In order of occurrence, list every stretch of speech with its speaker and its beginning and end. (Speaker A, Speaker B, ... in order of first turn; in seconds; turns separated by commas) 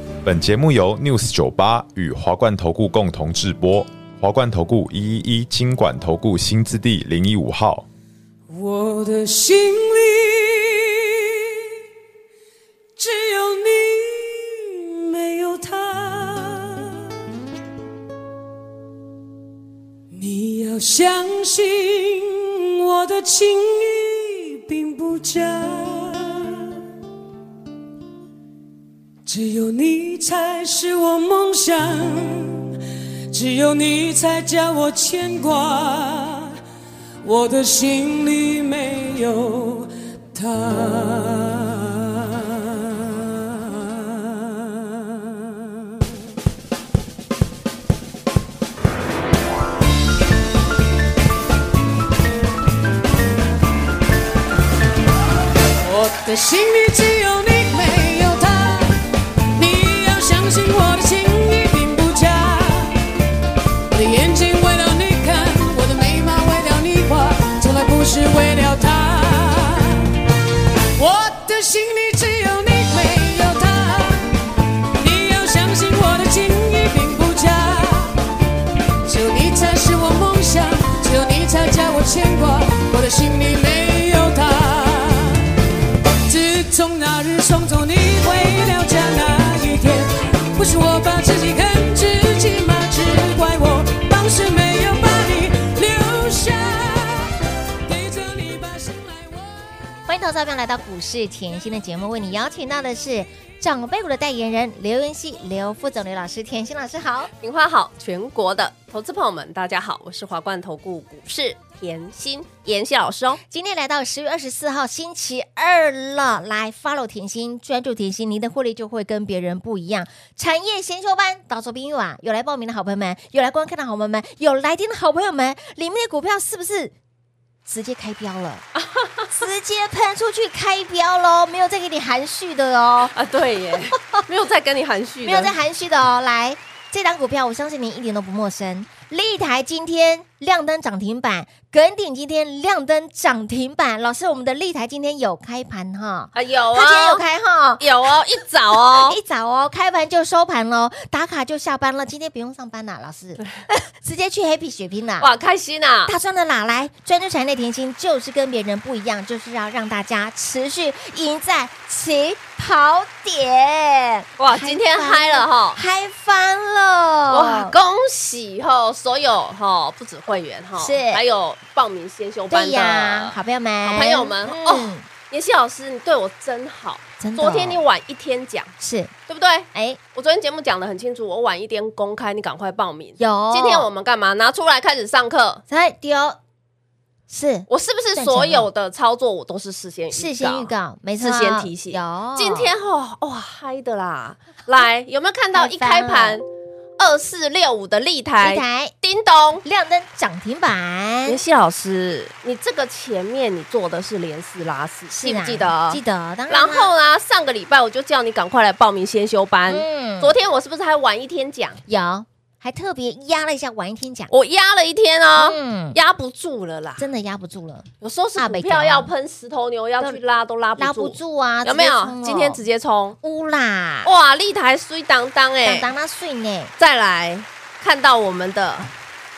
Speaker A: 0.2-7.8, Speaker B: 8.5-11.5, Speaker B: 13.0-17.0, Speaker B: 20.1-26.7, Speaker B: 29.2-32.7, Speaker B: 33.3-36.5, Speaker B: 37.2-45.7, Speaker B: 55.8-59.0, Speaker B: 59.5-63.1, Speaker B: 63.9-70.1, Speaker B: 71.0-74.3, Speaker B: 75.0-78.2, Speaker B: 79.0-85.5, Speaker B: 86.2-97.3, Speaker B: 97.8-99.6, Speaker C: 100.1-107.3, Speaker D: 107.4-113.4, Speaker C: 113.5-126.9, Speaker C: 127.6-128.6, Speaker D: 128.8-129.3, Speaker C: 129.3-133.1, Speaker D: 133.1-135.5, Speaker C: 133.7-134.2, Speaker C: 135.2-148.1, Speaker D: 146.3-147.2, Speaker D: 147.8-149.2, Speaker C: 148.7-155.3, Speaker D: 155.2-156.1, Speaker C: 156.1-167.7, Speaker D: 164.4-165.8, Speaker D: 167.3-178.7, Speaker C: 170.8-171.2, Speaker C: 172.5-175.1, Speaker C: 177.2-177.8, Speaker C: 178.8-179.1, Speaker D: 179.3-185.6, Speaker C: 179.7-180.0, Speaker C: 183.2-183.9, Speaker C: 185.7-186.4, Speaker C: 187.3-188.7, Speaker D: 187.7-196.4, Speaker C: 190.1-192.7, Speaker C: 195.5-196.4, Speaker D: 197.0-199.6, Speaker C: 198.4-198.9, Speaker C: 199.6-201.4, Speaker D: 201.2-211.8, Speaker C: 205.1-206.9, Speaker C: 209.7-210.3, Speaker C: 211.9-214.3, Speaker D: 214.3-217.0, Speaker C: 215.4-216.0, Speaker C: 217.0-219.1, Speaker D: 218.0-223.2, Speaker C: 220.8-222.6, Speaker C: 223.2-224.1, Speaker D: 224.0-225.9, Speaker C: 225.6-226.7, Speaker D: 226.8-228.9